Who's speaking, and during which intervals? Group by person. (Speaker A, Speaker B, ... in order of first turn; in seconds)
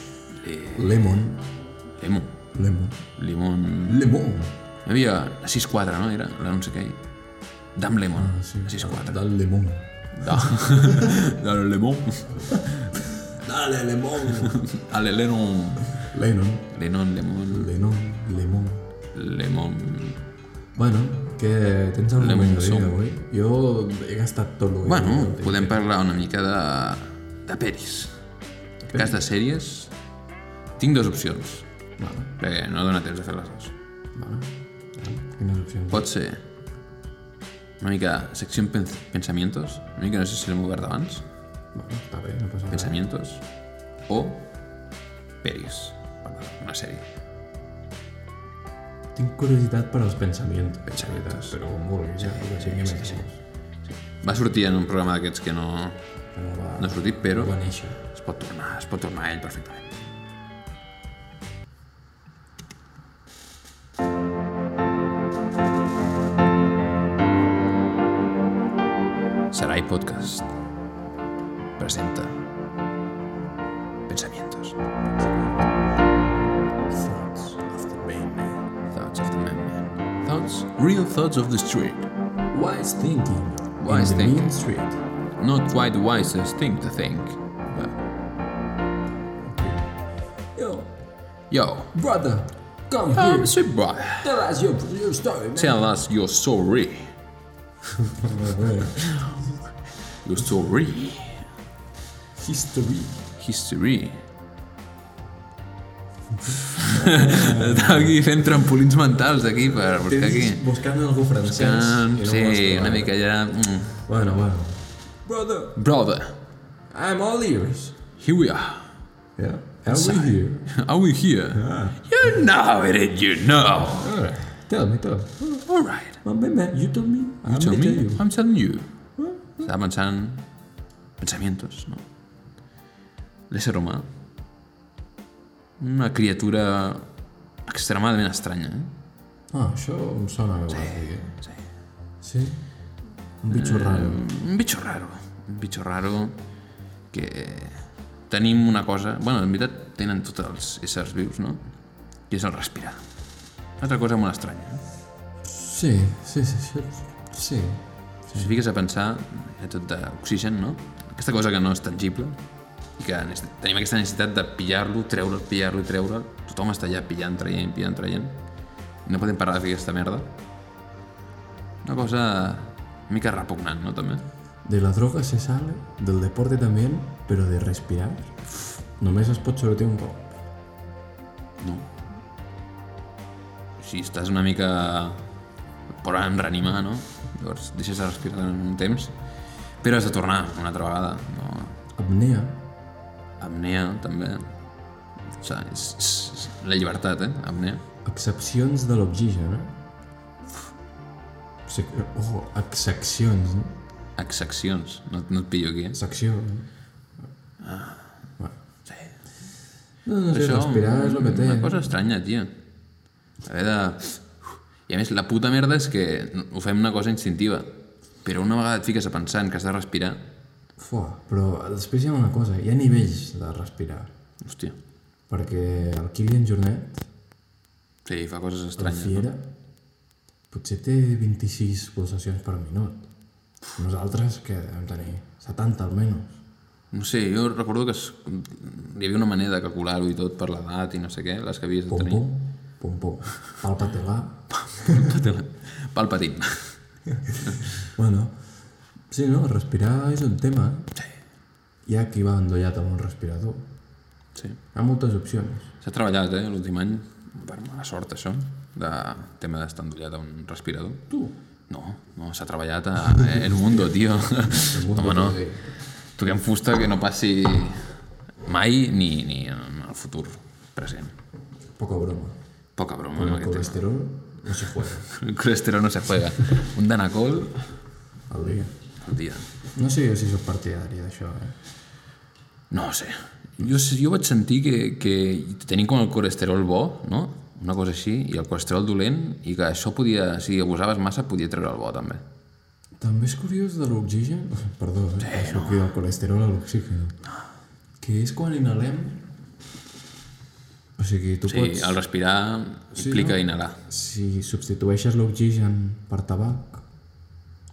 Speaker A: 0.3-0.9, 2.0-2.4, 3.2-4.0, 4.8-7.0, 7.8-9.2, 10.2-13.0, 14.3-15.9, 16.7-17.7, 19.1-20.2, 22.2-22.9, 24.8-28.2, 28.9-29.9, 30.8-31.7, 32.4-33.7, 35.9-36.4, 37.8-41.2, 42.7-43.4, 44.1-44.4, 45.4-47.0, 50.9-51.6, 52.2-53.2, 53.8-56.0, 56.8-60.0, 69.5-70.5, 71.8-72.4, 74.1-74.8, 78.9-82.1, 83.8-84.5, 85.4-88.0, 91.5-91.9, 93.1-94.3, 95.5-97.1, 99.0-99.4, 100.2-101.5, 103.4-104.2, 106.8-110.6, 111.4-114.0, 115.7-116.4, 118.2-118.9, 119.9-124.1, 125.7-126.2, 127.5-128.8, 129.6-130.4, 131.2-132.0, 133.5-134.1, 135.8-137.1, 137.7-138.9, 140.7-141.6, 143.5-146.4, 147.1-151.6, 152.3-153.0, 153.8-154.8, 158.3-162.4, 163.0-168.4, 169.0-170.3, 171.8-174.2, 181.6-181.9, 183.8-185.2, 185.9-189.1, 189.8-191.8, 193.4-194.4, 195.3-197.8, 204.2-206.0, 207.6-208.2, 208.8-209.2, 210.3-212.6, 213.4-217.7, 218.2-220.2, 224.4-224.8, 228.0-229.3, 236.9-242.3, 244.5-246.8, 247.4-247.7, 254.3-254.6, 255.8-261.0, 261.7-265.4, 266.1-271.1, 272.8-273.8, 275.1-277.6, 279.0-279.5, 282.7-292.2, 295.2-295.9, 301.4-303.8
Speaker B: 0.7-1.5, 2.5-3.0, 3.9-4.5, 8.1-11.2, 12.5-14.6, 15.9-16.7, 17.5-18.8, 20.7-25.8, 28.8-29.2, 32.0-32.3, 34.1-36.1, 41.7-43.0, 49.1-53.4, 56.3-58.0, 76.9-78.6, 82.5-85.0, 89.4-89.9, 90.5-90.9, 91.9-95.8, 98.0-99.1, 102.3-103.2, 106.8-108.2, 109.9-113.2, 113.8-115.8, 116.9-118.0, 119.3-120.8, 121.5-122.4, 123.8-125.7, 126.2-128.2, 129.2-129.7, 139.5-141.4, 142.2-142.7, 143.4-144.2, 155.4-158.6, 174.6-178.4, 178.9-180.3, 191.9-192.6, 198.0-199.8, 201.7-203.8, 205.9-206.7, 210.0-211.9, 220.8-224.1, 225.3-227.1, 228.8-229.5, 230.5-233.1, 233.8-236.4, 241.9-245.1, 247.1-248.4, 249.1-250.9, 251.8-253.7, 254.7-255.7, 261.1-261.3, 263.0-265.7, 271.8-272.4, 273.1-275.1, 278.3-278.7, 279.7-281.6, 293.0-297.2, 298.0-299.2, 301.0-302.0, 302.9-306.8